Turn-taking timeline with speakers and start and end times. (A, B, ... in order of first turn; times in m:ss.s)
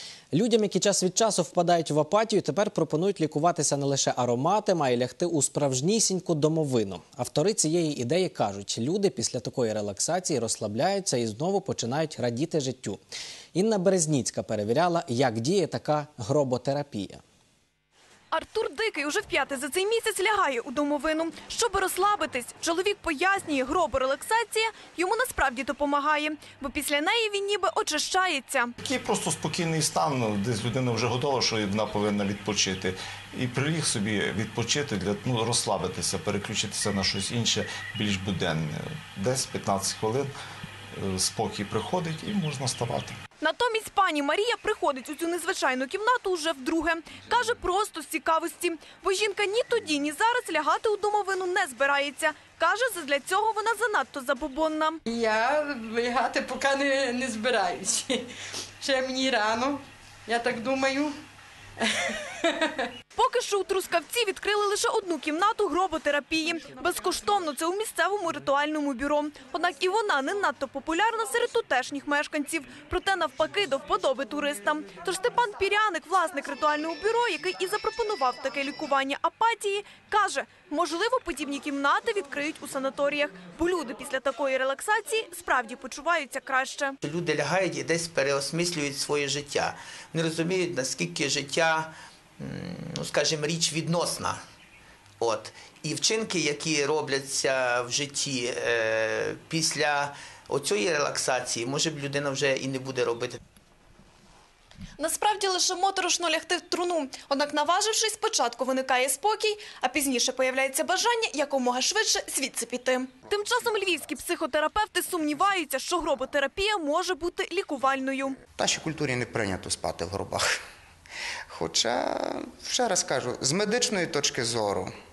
0:00.3-0:13.0 A
0:13.5-0:17.2 A
0:18.3-0:28.7 B
0:28.8-0:40.3 C
0:41.0-0:43.2 C
0:43.4-0:55.0 B
0:55.0-0:58.3 D
0:58.8-1:01.2 D
1:01.9-1:02.7 D
1:03.1-1:26.9 B
1:27.0-1:34.4 E
1:35.2-1:43.4 E
1:45.0-1:58.4 B
1:58.6-2:00.5 F
2:01.5-2:04.9 F